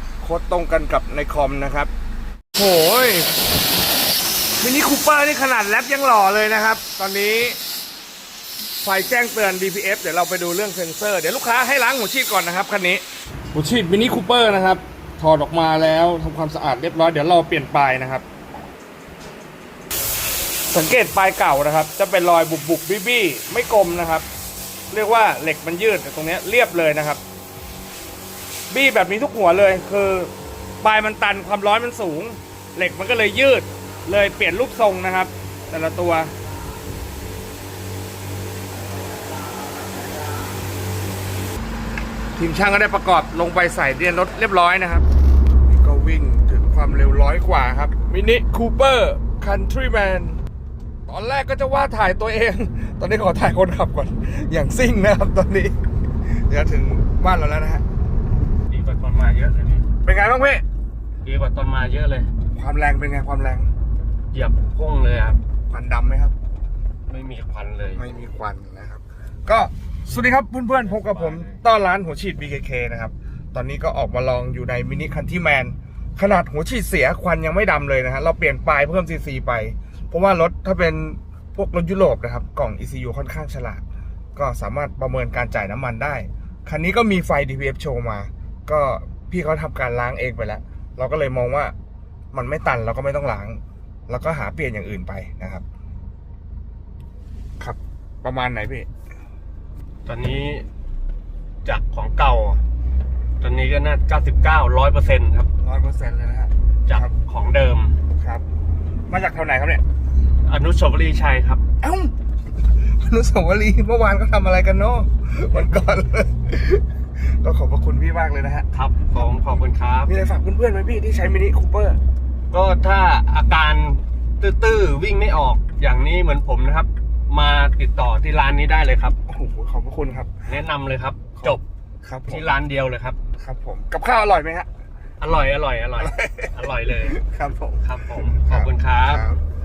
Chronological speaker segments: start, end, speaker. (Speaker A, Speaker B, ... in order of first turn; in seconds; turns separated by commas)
Speaker A: 0.2-1.9, Speaker A: 2.5-3.3, Speaker A: 4.6-7.6, Speaker A: 8.8-13.0, Speaker A: 13.5-18.2, Speaker A: 20.7-24.2, Speaker A: 24.9-27.2, Speaker A: 28.7-36.3, Speaker A: 42.4-45.0, Speaker A: 45.7-50.4, Speaker A: 51.1-55.7, Speaker A: 56.3-57.8, Speaker B: 58.7-59.9, Speaker A: 60.0-60.6, Speaker B: 61.2-62.3, Speaker A: 62.5-63.7, Speaker B: 64.3-65.4, Speaker A: 65.7-66.3, Speaker B: 67.1-68.0, Speaker A: 67.9-83.8, Speaker B: 70.8-71.6, Speaker A: 84.3-91.7, Speaker A: 92.3-95.6, Speaker A: 97.6-98.9, Speaker B: 100.0-100.6, Speaker B: 101.6-102.6, Speaker B: 103.4-105.5, Speaker A: 105.6-107.1, Speaker B: 106.8-107.9, Speaker A: 108.2-108.4, Speaker A: 109.1-109.8, Speaker B: 110.4-111.6, Speaker A: 111.8-112.1, Speaker A: 112.8-119.3, Speaker B: 118.7-120.1, Speaker A: 120.0-122.0, Speaker B: 122.5-129.2, Speaker A: 129.3-130.4, Speaker B: 130.4-131.6, Speaker A: 131.4-132.5, Speaker B: 132.3-133.2, Speaker A: 133.4-134.7, Speaker B: 135.2-137.2, Speaker A: 136.0-139.4, Speaker B: 137.8-139.2